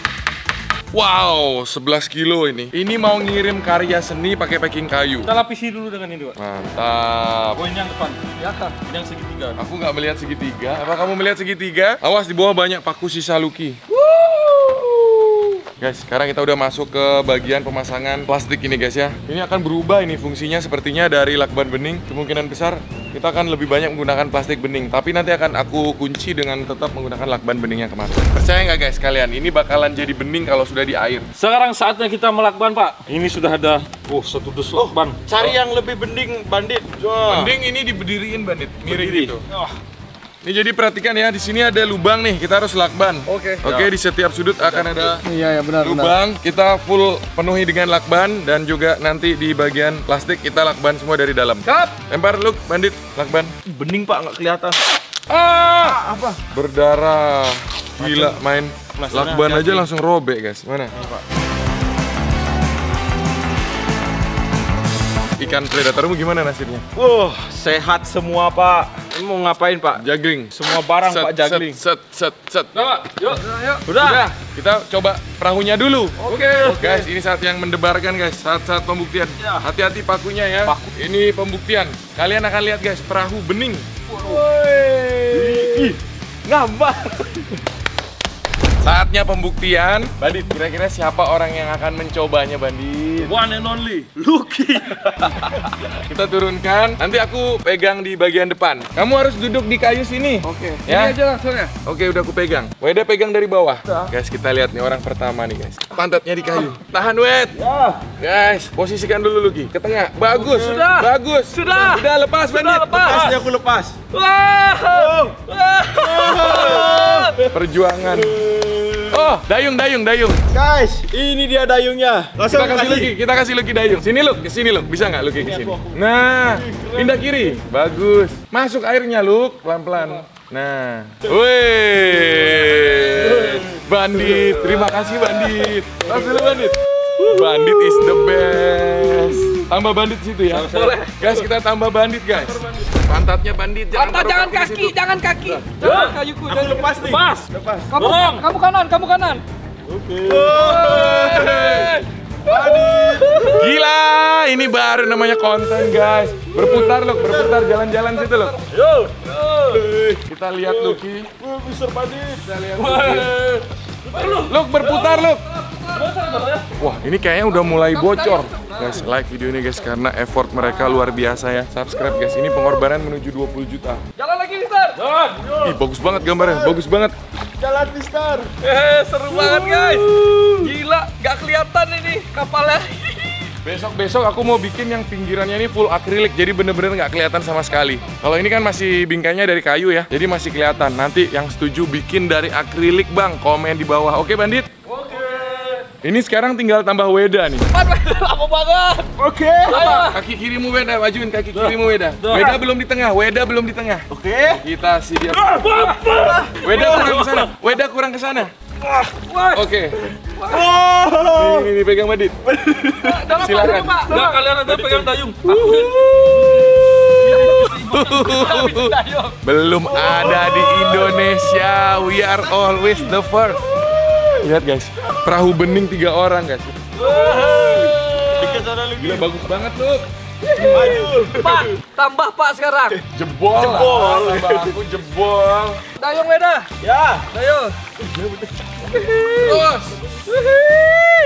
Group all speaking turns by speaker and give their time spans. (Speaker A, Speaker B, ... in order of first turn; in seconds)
Speaker A: 0.9-5.3, 6.4-7.6, 9.6-13.8, 15.8-31.3, 37.3-39.5, 40.4-45.2, 45.8-53.5, 56.5-60.9, 65.4-66.8, 70.0-72.8, 74.0-83.9, 88.8-93.4, 95.9-101.2, 101.8-107.6, 108.2-113.2, 117.5-118.4, 119.1-120.4, 122.5-145.5, 150.8-151.9, 153.5-158.6, 160.2-161.3, 162.5-163.3, 164.5-165.5, 166.8-174.0, 175.6-177.1, 183.6-194.7, 196.0-197.7, 199.8-205.9, 206.6-208.5, 209.5-210.0, 211.3-212.4, 213.4-214.0, 217.3-223.7, 224.4-226.9, 229.0-230.1, 230.6-230.9, 233.1-235.8, 239.4-239.9
Speaker B: 5.2-6.4, 7.5-9.6, 14.0-15.2, 31.4-35.2, 43.4-43.9, 72.8-74.2, 76.2-77.0, 84.1-84.4, 85.3-86.0, 93.2-95.7, 100.9-101.7, 110.5-112.0, 112.5-113.5, 114.1-117.4, 134.4-135.0, 137.2-139.6, 140.5-141.4, 145.7-146.2, 146.9-148.5, 149.9-151.1, 156.5-157.5, 158.4-159.9, 162.8-166.7, 175.0-175.7, 178.6-180.1, 194.9-195.8, 199.7-200.1, 201.5-202.5, 205.3-207.5, 208.8-209.7, 213.7-219.3, 227.0-228.6
Speaker C: 34.7-37.5, 38.9-39.7, 53.7-54.8, 55.7-56.4, 58.0-58.4, 59.0-59.9, 60.9-61.2, 67.0-71.8, 73.8-74.3, 76.3-77.1, 84.1-87.4, 107.6-108.0, 110.3-110.9, 112.8-114.0, 114.9-115.4, 116.0-117.5, 118.0-119.3, 120.5-123.1, 125.4-127.5, 145.8-147.9, 150.2-151.9, 152.5-153.7, 157.2-157.8, 159.7-162.5, 176.1-176.8, 177.6-178.5, 179.4-180.7, 199.2-200.1, 204.1-204.6, 206.1-207.1, 210.4-211.7, 212.4-213.5, 215.7-217.1, 219.8-221.5, 223.7-224.5, 227.0-229.3, 230.6-231.7, 233.6-234.7, 236.8-237.3
Speaker D: 45.2-46.1, 51.6-51.9, 100.9-101.7, 143.9-146.9, 147.9-149.4, 150.5-153.6, 167.7-169.0, 174.2-175.1, 178.8-183.5, 197.7-199.1, 213.0-214.4, 218.4-218.9, 227.1-228.1, 230.6-233.0, 236.0-236.7, 237.3-237.8, 238.9-239.6, 240.3-241.2